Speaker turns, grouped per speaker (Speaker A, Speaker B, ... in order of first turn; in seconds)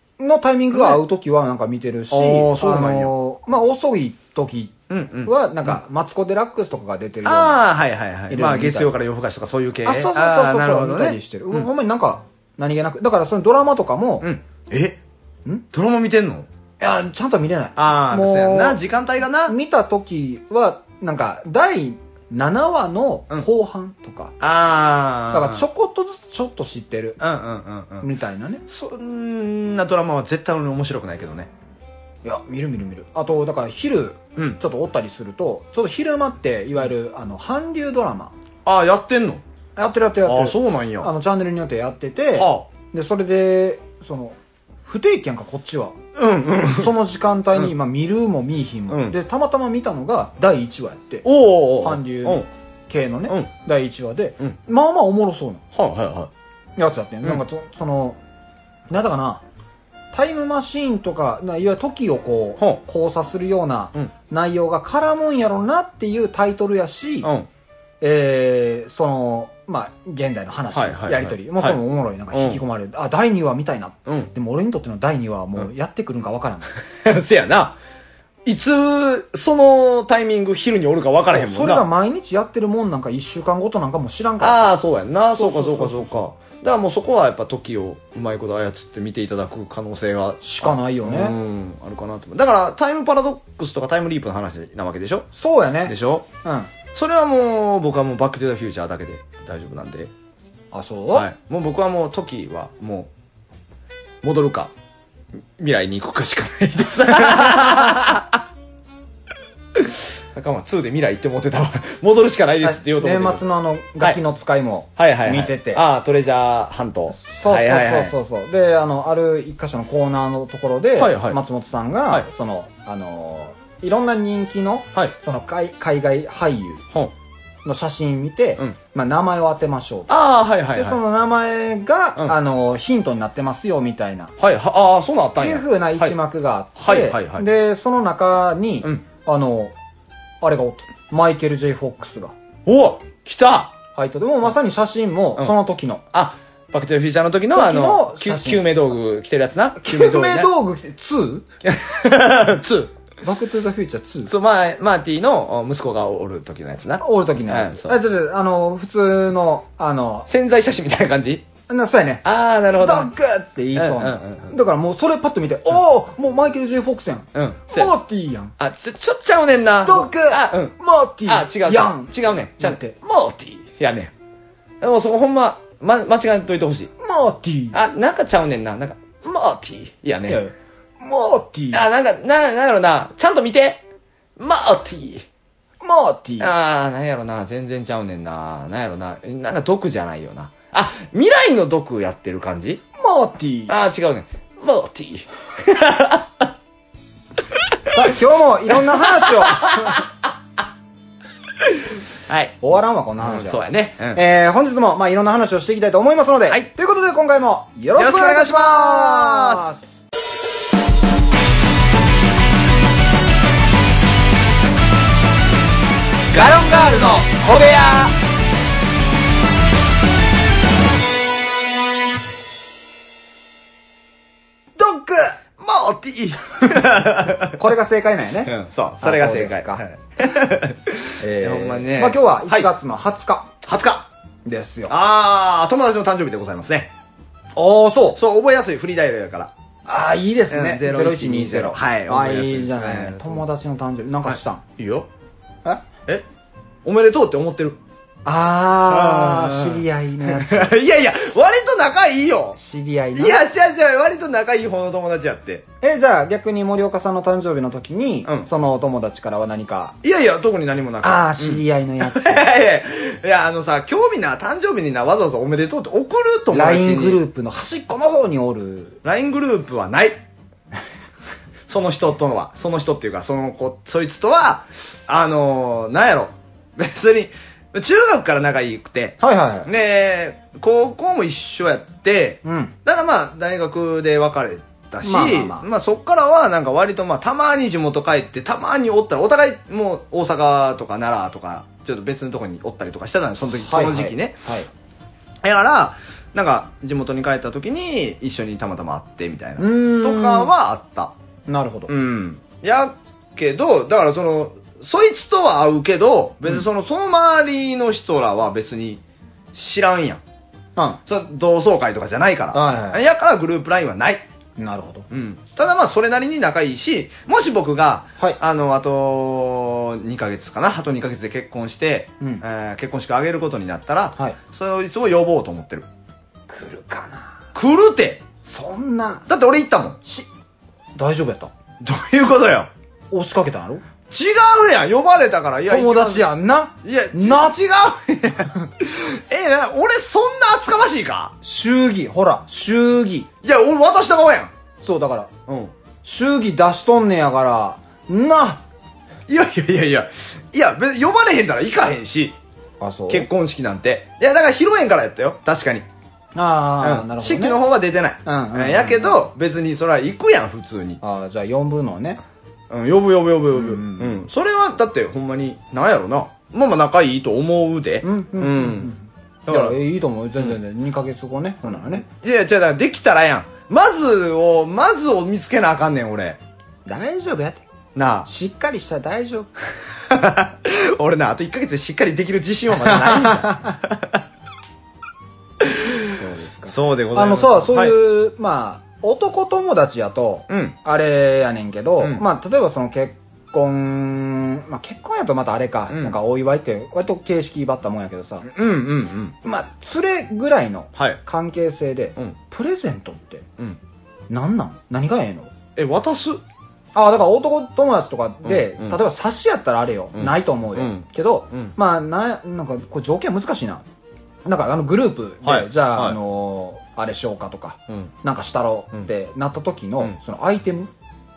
Speaker A: 0.2-7.6, 8.3-8.9, 9.8-14.3, 16.8-18.8, 19.4-24.3, 25.3-27.2, 28.0-28.6, 32.2-38.3, 39.8-46.0, 46.7-55.6, 56.8-58.2, 58.9-59.4, 60.1-67.3, 68.0-76.7, 81.2-84.7, 85.3-86.2, 90.4-91.3, 95.3-96.7, 100.7-101.3, 112.6-115.8, 117.1-126.8, 127.6-130.1, 130.7-134.3, 135.4-139.7, 140.4-142.3, 143.9-146.0, 147.5-148.6, 149.8-151.4, 153.2-154.3, 157.0-160.3, 161.7-162.2, 162.8-168.5, 169.8-172.9, 177.0-177.8, 180.3-181.8, 185.8-186.5, 193.0-193.8, 197.9-200.0, 202.6-209.9, 216.4-217.8, 224.8-225.4, 227.5-229.8, 231.2-233.5, 234.4-234.9, 237.5-238.2, 239.9-244.6, 248.2-250.7, 252.6-253.4, 255.8-259.9, 261.0-262.4, 266.5-269.0, 279.2-279.7, 282.4-282.7, 285.0-285.7, 293.6-294.7, 299.6-300.5, 301.5-301.9, 312.5-313.0, 314.6-315.1, 326.5-327.4, 328.4-329.3, 330.9-331.5, 333.1-333.8, 335.7-337.6, 341.4-343.3, 344.8-345.3, 346.0-348.6, 352.8-353.3, 356.3-357.6, 358.2-359.2, 361.0-362.2, 363.5-364.2, 368.0-372.0, 376.9-377.6, 378.2-379.5, 382.8-383.8, 386.2-398.5, 399.4-403.5, 404.3-405.5, 406.9-413.8, 414.4-420.9
Speaker B: 0.7-1.0, 2.1-3.1, 4.9-5.8, 7.2-11.7, 14.2-15.0, 15.7-16.5, 17.8-19.5, 24.4-25.6, 27.2-28.1, 28.7-31.5, 38.6-39.4, 40.2-41.1, 42.3-42.7, 46.1-46.9, 48.9-49.2, 51.2-52.5, 55.7-56.3, 67.2-67.5, 70.7-72.6, 74.0-74.3, 77.0-77.8, 78.4-81.8, 84.4-95.3, 95.8-96.3, 96.9-100.1, 101.1-103.1, 104.2-104.7, 105.6-108.4, 109.7-113.4, 115.0-118.1, 121.0-121.4, 130.1-131.0, 134.4-136.2, 136.8-137.4, 142.7-143.7, 146.1-150.5, 151.6-152.9, 154.3-158.0, 160.3-161.4, 162.2-163.1, 163.7-164.5, 167.3-167.9, 168.6-174.1, 174.8-176.9, 177.7-180.4, 181.7-183.8, 184.4-185.2, 186.4-192.8, 193.7-196.5, 199.2-200.1, 201.6-202.6, 203.2-204.2, 207.9-209.7, 216.3-218.1, 225.6-227.7, 228.4-232.7, 233.6-234.1, 234.9-236.9, 238.2-239.5, 240.5-243.4, 244.2-245.1, 246.8-247.8, 248.9-252.6, 253.1-255.6, 260.0-267.2, 269.0-270.2, 271.7-294.4, 295.4-301.1, 301.9-309.0, 309.5-310.2, 311.1-314.2, 315.1-325.9, 327.5-328.2, 329.3-330.0, 331.8-332.7, 334.1-336.3, 336.8-341.3, 343.4-344.5, 345.5-345.7, 349.3-352.4, 353.1-355.9, 356.8-361.0, 362.7-368.9, 369.5-369.8, 371.9-376.4, 377.9-378.3, 380.1-384.2, 385.6-386.1, 386.7-387.9, 390.5-390.8, 392.0-392.2, 395.9-396.2, 398.4-399.4, 400.9-401.2, 405.8-406.4, 408.4-409.0, 410.1-411.7, 415.4-416.2